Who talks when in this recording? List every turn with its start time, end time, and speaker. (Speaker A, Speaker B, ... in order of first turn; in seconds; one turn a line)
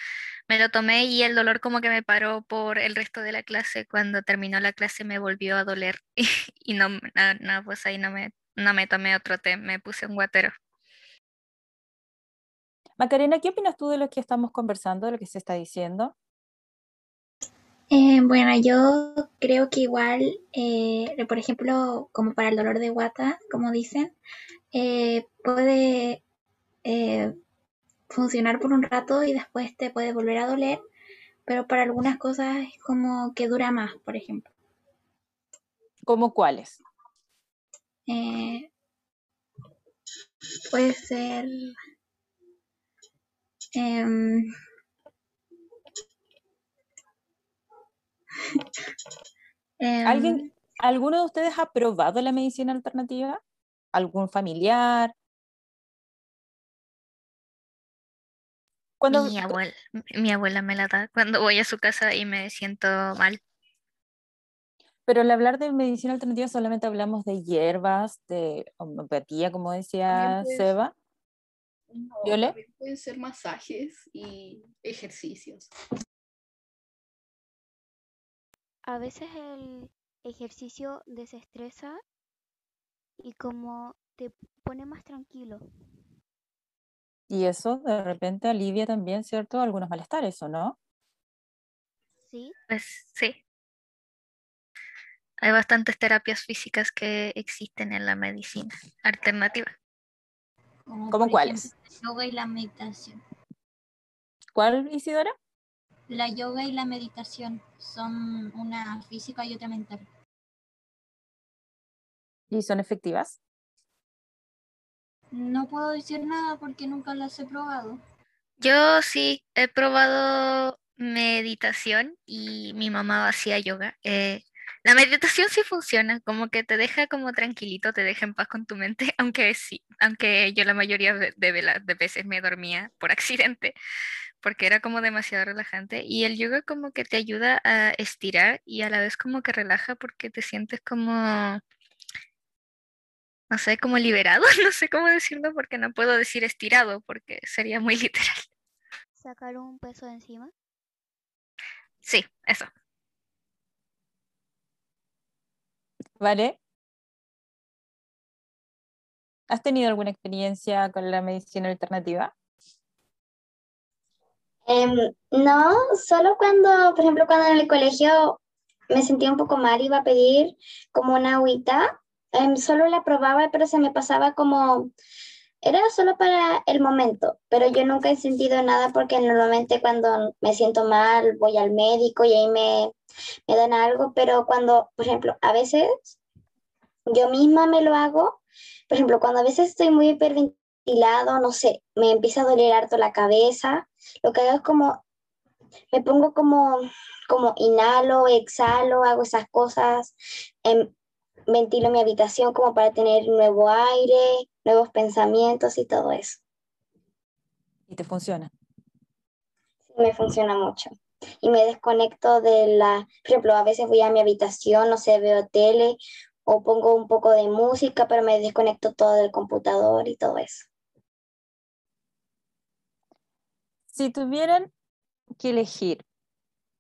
Speaker A: 0.5-10.5
Speaker B: 13.0-16.1
Speaker C: 17.9-24.1
Speaker C: 24.7-26.2
Speaker C: 26.9-27.3
Speaker C: 28.1-30.8
Speaker C: 31.5-34.5
Speaker B: 36.1-36.8
Speaker C: 38.1-38.7
Speaker C: 40.7-41.8
Speaker C: 43.8-44.5
Speaker C: 48.5-48.8
Speaker C: 49.8-50.5
Speaker B: 50.0-53.4
Speaker B: 53.9-55.1
Speaker B: 59.0-59.6
Speaker A: 59.1-63.4
Speaker B: 65.1-70.9
Speaker D: 70.1-70.7
Speaker D: 71.9-75.7
Speaker B: 72.2-72.6
Speaker E: 78.8-82.0
Speaker E: 83.2-85.7
Speaker B: 87.3-90.8
Speaker E: 92.2-92.5
Speaker A: 92.7-93.4
Speaker A: 95.4-99.7
Speaker F: 100.9-103.2
Speaker B: 101.1-101.7
Speaker B: 104.5-105.3
Speaker F: 106.1-110.1
Speaker B: 112.5-113.4
Speaker F: 115.3-118.0
Speaker A: 118.6-133.7
Speaker A: 134.4-141.6
Speaker A: 143.5-148.5
Speaker E: 149.2-150.5
Speaker A: 152.0-152.7
Speaker B: 156.2-156.6
Speaker B: 159.5-162.3
Speaker G: 164.7-168.4
Speaker G: 168.9-174.9
Speaker G: 175.6-182.9
Speaker G: 183.5-186.1
Speaker G: 187.1-195.0
Speaker G: 195.9-200.1
Speaker G: 200.7-200.9
Speaker G: 201.5-206.4
Speaker B: 207.9-208.5
Speaker G: 209.9-210.9
Speaker G: 211.4-220.7
Speaker B: 223.9-224.7
Speaker B: 225.4-226.0